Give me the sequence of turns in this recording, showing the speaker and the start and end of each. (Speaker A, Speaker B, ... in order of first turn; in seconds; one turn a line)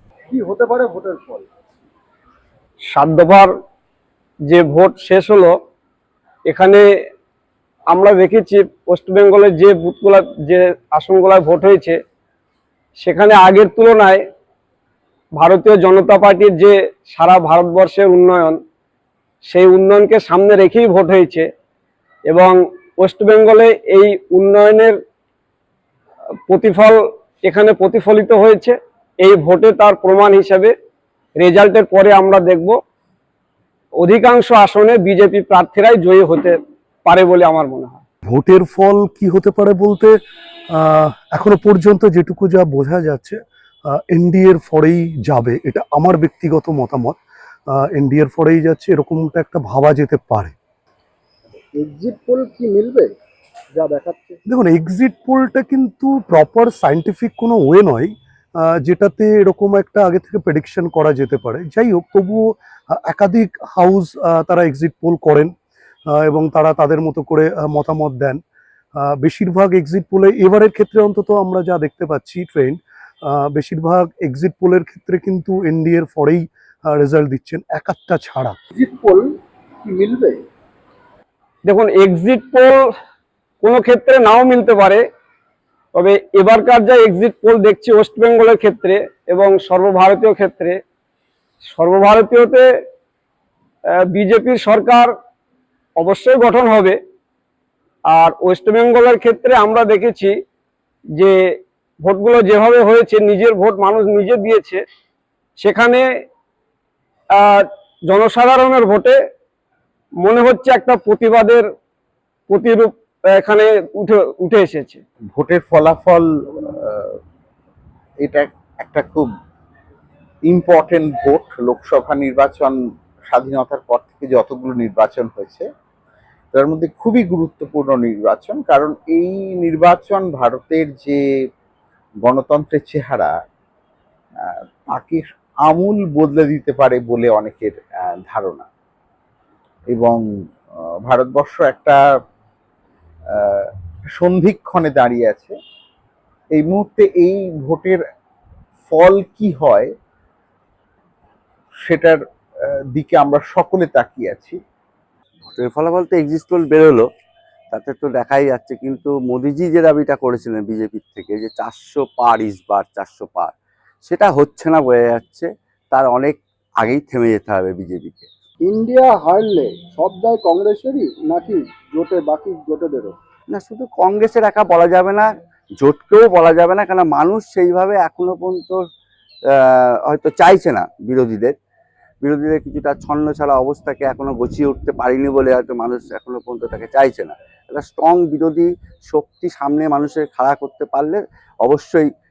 Speaker A: 0.3-1.5
Speaker B: 2.9-3.5
Speaker B: 4.5-5.5
Speaker B: 6.5-6.8
Speaker B: 7.9-12.0
Speaker B: 13.0-14.2
Speaker B: 15.4-18.6
Speaker B: 19.5-21.5
Speaker B: 22.3-24.9
Speaker B: 26.5-30.7
Speaker B: 31.4-32.8
Speaker B: 34.0-38.0
Speaker C: 38.3-40.2
Speaker C: 40.8-43.4
Speaker C: 44.1-47.2
Speaker C: 47.9-50.5
Speaker A: 51.7-53.1
Speaker A: 53.7-54.4
Speaker C: 54.5-65.5
Speaker C: 66.2-68.4
Speaker C: 69.0-78.6
Speaker A: 78.7-79.3
Speaker A: 79.8-80.4
Speaker B: 81.7-82.7
Speaker B: 83.6-85.0
Speaker B: 86.0-90.8
Speaker B: 91.7-92.7
Speaker B: 94.1-95.1
Speaker B: 96.0-97.0
Speaker B: 98.1-100.3
Speaker B: 102.0-104.8
Speaker B: 105.6-106.0
Speaker B: 107.4-109.2
Speaker B: 110.2-111.7
Speaker B: 112.5-115.0
Speaker D: 115.3-117.1
Speaker D: 118.2-119.3
Speaker D: 120.5-122.8
Speaker D: 123.3-125.7
Speaker D: 126.5-131.2
Speaker D: 132.2-133.3
Speaker D: 134.4-138.7
Speaker D: 139.9-140.2
Speaker D: 141.1-142.0
Speaker D: 143.4-145.5
Speaker D: 146.5-148.0
Speaker D: 148.9-149.9
Speaker D: 151.8-152.2
Speaker D: 152.9-154.6
Speaker E: 155.5-157.0
Speaker E: 157.7-163.5
Speaker E: 164.0-168.3
Speaker A: 168.7-173.2
Speaker E: 173.5-175.2
Speaker E: 175.8-178.8
Speaker E: 180.1-181.5
Speaker E: 182.2-192.0